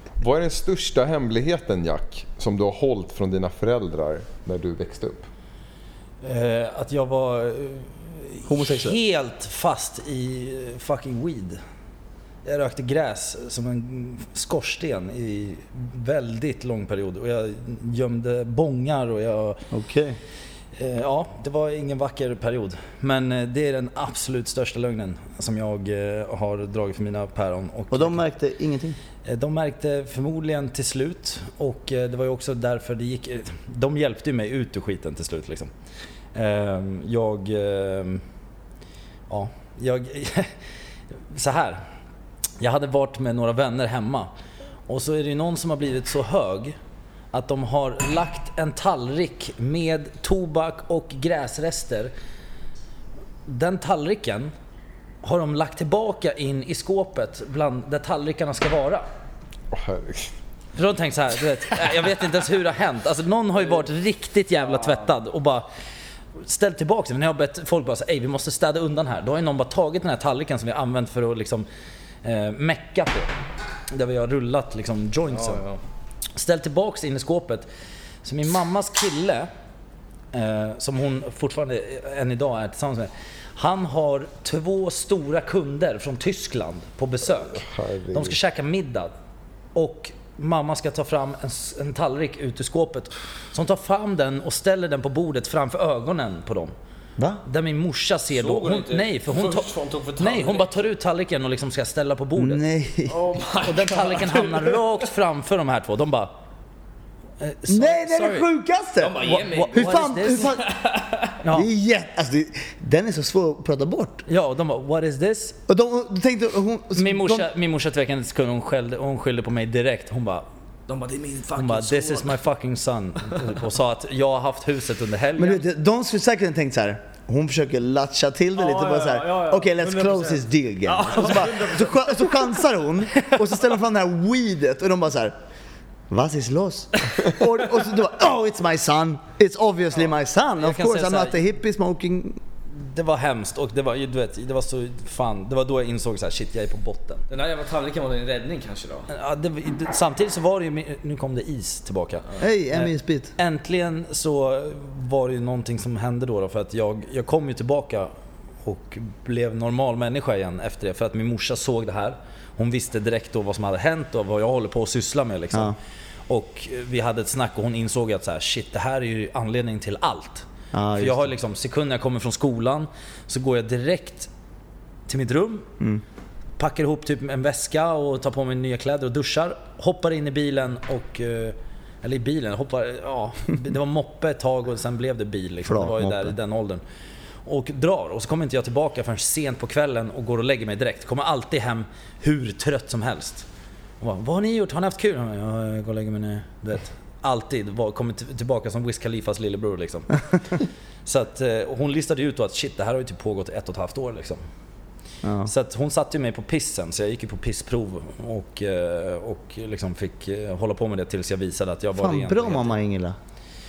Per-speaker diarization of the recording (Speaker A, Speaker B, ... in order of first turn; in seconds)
Speaker A: 0.2-5.2, 59.7-60.3, 87.5-88.4
Speaker B: 6.2-11.6, 12.4-19.6, 20.8-28.2, 29.2-35.7, 36.3-38.2, 39.3-40.5, 41.3-41.8, 42.6-44.3, 44.9-46.8, 47.3-52.1, 53.5-54.5, 55.2-59.0, 60.8-65.7, 66.4-71.7, 72.2-73.3, 73.9-75.6, 76.3-77.7, 78.2-79.5, 80.3-89.1, 89.7-96.7, 97.4-102.6, 103.6-106.3, 107.4-108.5, 109.2-110.6, 111.4-111.7, 114.3-115.6, 116.9-120.5, 121.5-125.6, 140.6-141.4, 142.7-147.2, 149.1-158.1, 158.6-165.8, 166.3-174.3, 175.1-175.7, 176.6-186.8, 187.4-193.4, 194.0-200.2, 201.0-204.4, 205.4-212.7
Speaker C: 8.4-9.0, 19.7-20.2, 27.9-29.0, 97.2-97.4, 102.3-103.2, 107.7-110.6, 111.5-114.2, 115.7-117.5, 125.4-135.3, 136.1-142.4, 152.4-153.3, 170.7-171.3, 185.6-186.3, 205.2-205.5, 211.9-213.2
Speaker D: 75.3-75.8, 98.3-100.7, 103.1-104.8, 109.0-111.3, 120.9-122.4, 128.6-132.6, 147.3-149.1